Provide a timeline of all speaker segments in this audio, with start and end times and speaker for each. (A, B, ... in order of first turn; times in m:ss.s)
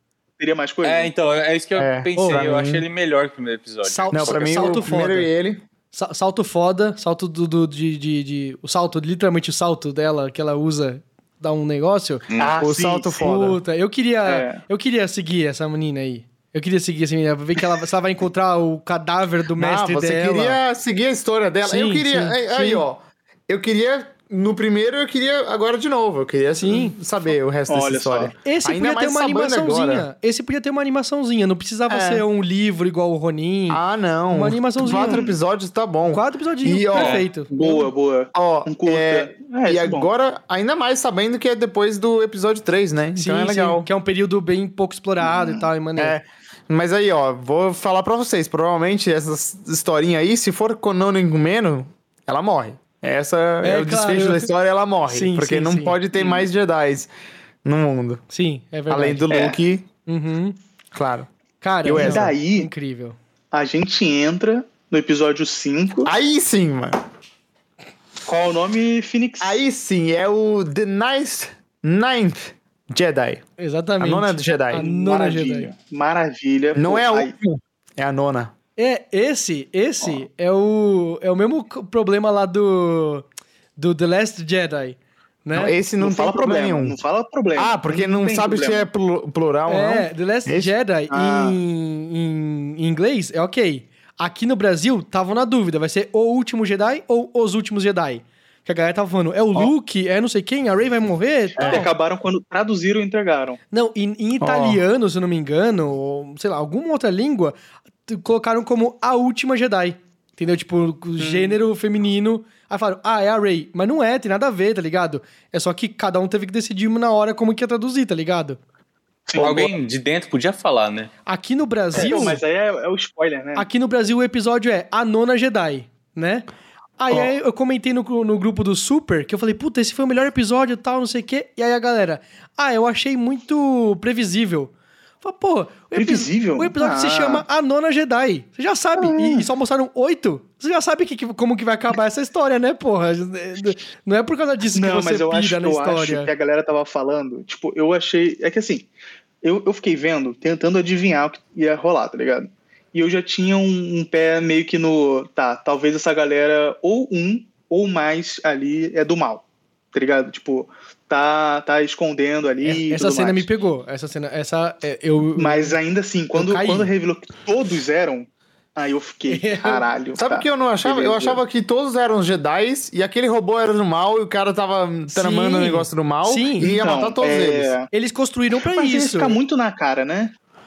0:00.4-0:01.1 A
0:00.8-0:04.8 B
0:01.8-0:02.8 C
0:02.2-0:02.5 D
0:03.8-0:05.3 D
0:04.1-0:05.6 C
0:05.9-0:12.2 D
0:12.3-0:12.6 B
0:12.4-0:13.2 A
0:12.5-0:13.6 C
0:13.2-0:20.6 D
0:14.2-0:14.6 A
0:19.6-0:30.1 C
0:21.6-0:22.8 D
0:26.6-0:27.0 D
0:27.7-0:28.3 A
0:28.4-0:35.2 D
0:31.9-0:32.2 C
0:33.7-0:37.2 C
0:34.8-0:35.3 A
0:36.0-0:37.8 D
0:37.0-0:37.2 B
0:37.5-0:40.1 A
0:38.3-0:43.9 C
0:43.2-0:46.2 D
0:45.2-0:45.6 A
0:46.0-0:57.1 C
0:53.6-0:54.5 D
0:55.1-0:56.0 D
0:56.1-0:56.4 A
0:57.6-0:58.2 C
0:58.3-0:59.3 D
0:58.9-0:59.9 C
0:59.3-0:59.6 A
1:00.0-1:00.6 D
1:00.9-1:01.3 C
1:01.6-1:03.2 D
1:01.8-1:02.3 C
1:01.9-1:02.7 A
1:03.5-1:06.1 A
1:06.0-1:07.0 C
1:08.2-1:09.6 A
1:09.4-1:13.4 C
1:13.6-1:15.7 D
1:14.0-1:14.8 C
1:14.7-1:17.3 A
1:16.7-1:18.5 C
1:18.8-1:23.2 D
1:23.8-1:25.7 D
1:25.5-1:27.0 C
1:26.0-1:28.9 A
1:27.6-1:30.7 C
1:29.7-1:41.9 D
1:31.1-1:31.6 A
1:41.6-1:43.6 A
1:41.6-1:41.9 C
1:43.7-1:47.5 D
1:44.4-1:44.8 C
1:48.1-1:58.6 D
1:51.2-1:51.6 A
1:59.3-1:59.7 A
1:59.4-2:01.1 B
2:01.2-2:02.4 D
2:02.0-2:03.7 A
2:03.6-2:06.5 D
2:07.0-2:26.3 D
2:15.9-2:17.4 A
2:18.9-2:19.4 A
2:24.7-2:28.9 A
2:29.4-2:43.5 A
2:42.6-2:45.8 D
2:45.4-2:51.4 A
2:46.3-2:46.9 D
2:49.3-2:49.8 D
2:50.2-2:57.7 C
2:55.1-2:56.8 D
2:56.7-2:57.9 A
2:57.9-2:59.4 D
2:58.6-3:00.3 A